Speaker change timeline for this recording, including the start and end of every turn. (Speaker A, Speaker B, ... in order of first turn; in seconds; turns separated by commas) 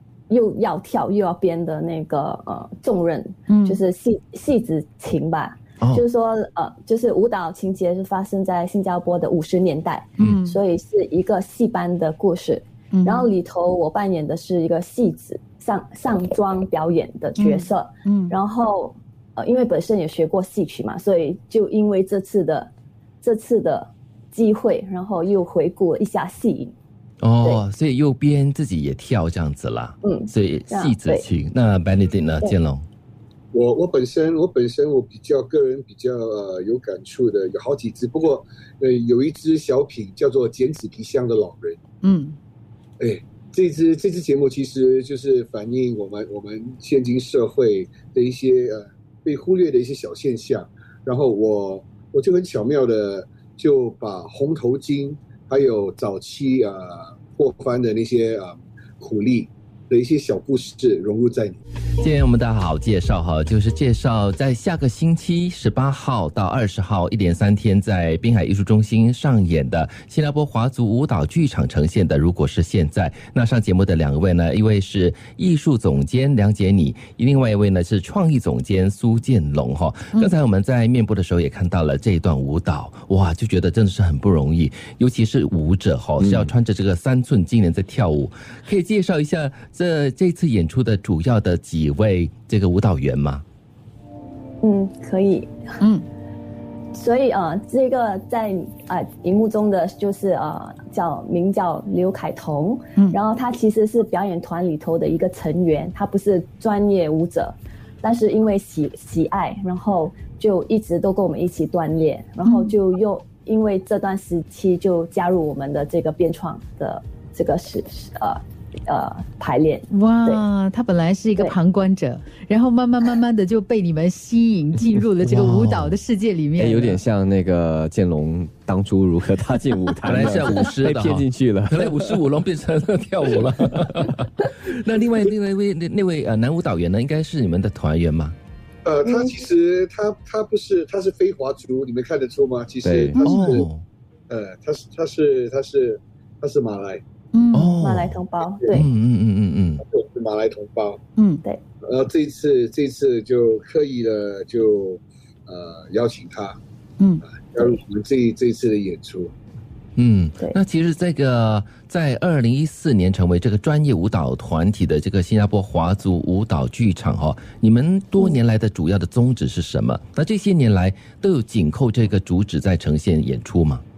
Speaker A: 0.3-26.7, Speaker B: 3.5-3.8, Speaker C: 5.8-6.0, Speaker B: 10.2-10.6, Speaker B: 12.9-13.3, Speaker B: 17.4-18.4, Speaker C: 27.2-32.8, Speaker A: 30.0-31.3, Speaker D: 33.5-41.8, Speaker B: 42.0-42.4, Speaker D: 43.0-61.6, Speaker C: 62.0-93.4, Speaker E: 86.2-86.5, Speaker A: 94.6-95.7, Speaker A: 96.9-120.4, Speaker B: 112.4-112.7, Speaker B: 119.9-127.0, Speaker C: 125.2-126.0, Speaker E: 126.6-132.2, Speaker C: 130.1-138.3, Speaker D: 138.8-143.7, Speaker A: 139.0-139.4, Speaker E: 142.8-143.2, Speaker C: 143.2-143.8, Speaker D: 144.3-147.0, Speaker B: 147.3-147.8, Speaker C: 147.5-148.2, Speaker A: 147.8-148.8, Speaker C: 148.7-149.8, Speaker D: 149.8-151.0, Speaker B: 151.2-151.4, Speaker D: 151.8-156.6, Speaker B: 157.0-157.2, Speaker D: 157.4-159.3, Speaker C: 159.9-173.8